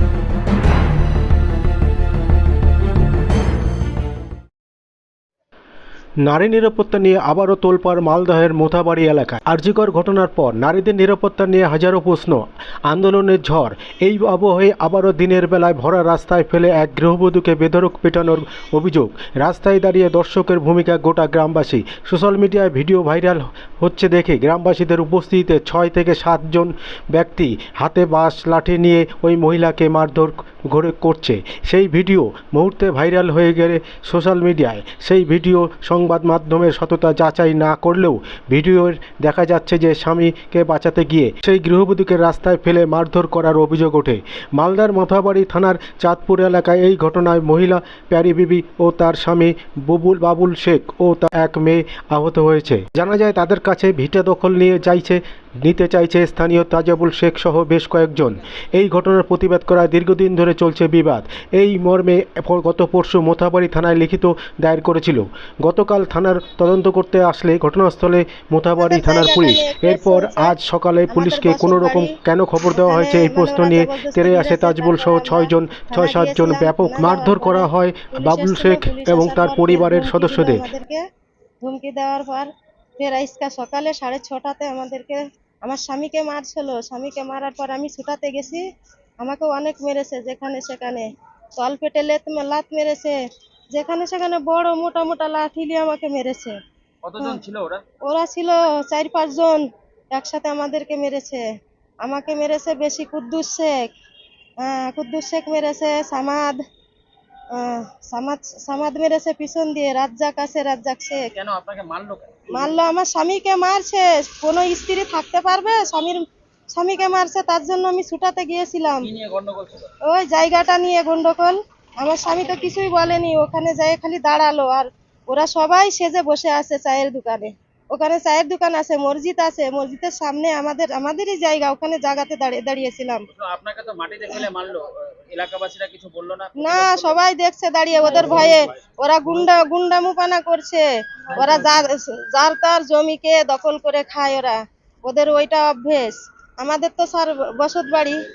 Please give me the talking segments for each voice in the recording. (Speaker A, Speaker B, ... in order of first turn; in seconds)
Speaker A: 6.2-80.7
Speaker B: 68.8-70.5, 71.1-72.1, 72.7-81.0, 81.6-88.6, 89.2-93.2, 93.7-96.6, 98.0-101.4, 102.0-103.8, 104.6-106.6, 107.5-111.3, 112.5-116.2, 116.7-119.1, 120.0-133.2, 136.6-148.2
Speaker C: 97.0-97.8, 111.3-112.4, 119.0-119.9, 133.3-137.2, 138.0-138.8, 141.4-141.8